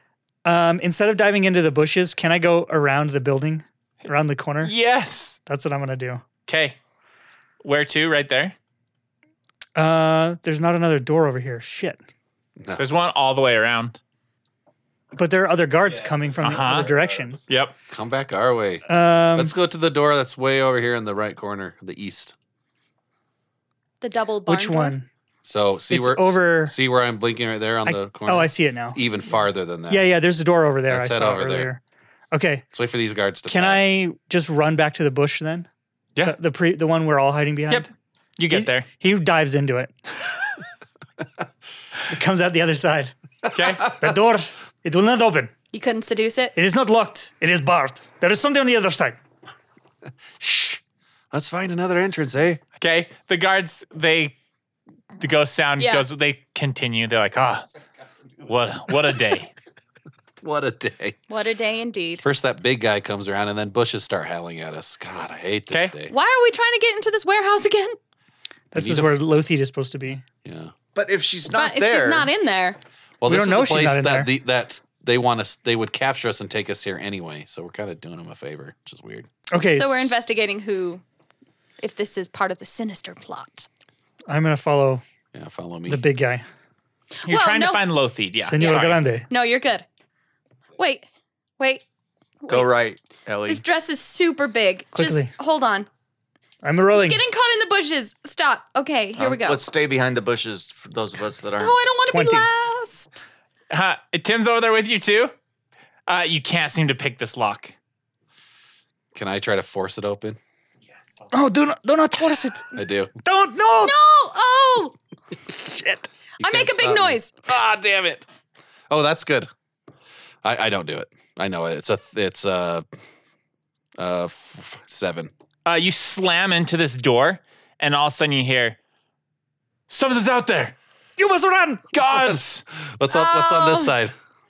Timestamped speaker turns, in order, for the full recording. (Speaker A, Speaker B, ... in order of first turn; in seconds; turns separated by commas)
Speaker A: 0.4-4.7, Speaker B: 4.6-5.4, Speaker A: 5.5-6.2, Speaker B: 6.5-6.8, Speaker B: 7.6-8.5, Speaker A: 9.8-12.0, Speaker B: 12.8-14.0, Speaker A: 15.1-17.4, Speaker B: 16.4-16.9, Speaker B: 17.5-17.7, Speaker C: 17.9-22.3, Speaker A: 18.9-19.5, Speaker D: 24.0-25.0, Speaker A: 24.5-25.1, Speaker C: 25.4-30.0, Speaker A: 25.9-26.7, Speaker A: 27.8-29.0, Speaker A: 29.9-31.8, Speaker C: 30.9-31.7, Speaker A: 32.3-32.6, Speaker C: 32.7-34.0, Speaker A: 33.5-35.7, Speaker A: 36.2-37.9, Speaker B: 37.7-38.9, Speaker A: 38.5-39.9, Speaker A: 42.1-43.1, Speaker B: 43.5-43.9, Speaker C: 43.6-44.2, Speaker A: 43.9-45.5, Speaker D: 45.7-46.5, Speaker A: 46.5-49.2, Speaker C: 50.4-52.6, Speaker B: 52.8-54.3, Speaker B: 55.2-57.7, Speaker D: 55.8-56.0, Speaker B: 58.4-59.5, Speaker C: 60.4-61.2, Speaker D: 61.3-62.2, Speaker C: 62.2-66.1, Speaker D: 66.1-68.0, Speaker A: 68.7-70.2, Speaker C: 68.7-69.2, Speaker C: 70.4-70.7, Speaker E: 70.9-72.3, Speaker D: 71.5-72.8, Speaker C: 73.2-79.3, Speaker A: 73.2-74.3, Speaker A: 79.5-80.1, Speaker D: 79.7-81.0, Speaker D: 81.8-83.7, Speaker A: 84.3-85.0, Speaker C: 85.3-86.0, Speaker A: 85.9-86.4, Speaker D: 87.2-87.8, Speaker B: 87.3-89.0, Speaker A: 88.4-89.3, Speaker D: 88.6-89.8, Speaker D: 90.8-91.0, Speaker D: 91.6-91.8, Speaker D: 92.4-92.7, Speaker E: 92.5-93.6, Speaker D: 93.5-95.9, Speaker A: 94.9-95.3, Speaker A: 96.6-97.2, Speaker D: 96.9-99.6, Speaker E: 99.2-101.9, Speaker D: 101.6-103.2, Speaker A: 102.1-102.5, Speaker B: 103.7-105.3, Speaker B: 106.1-107.7, Speaker C: 109.1-110.4, Speaker A: 111.3-113.9, Speaker C: 112.7-113.1, Speaker D: 113.8-114.9, Speaker A: 115.6-116.1, Speaker C: 116.4-118.2, Speaker D: 116.4-117.3, Speaker C: 118.9-119.5, Speaker C: 120.4-122.8, Speaker C: 124.0-125.3, Speaker B: 125.7-128.8, Speaker B: 129.9-130.8, Speaker A: 131.2-132.0, Speaker B: 131.9-132.6, Speaker C: 132.1-134.1, Speaker D: 133.1-133.9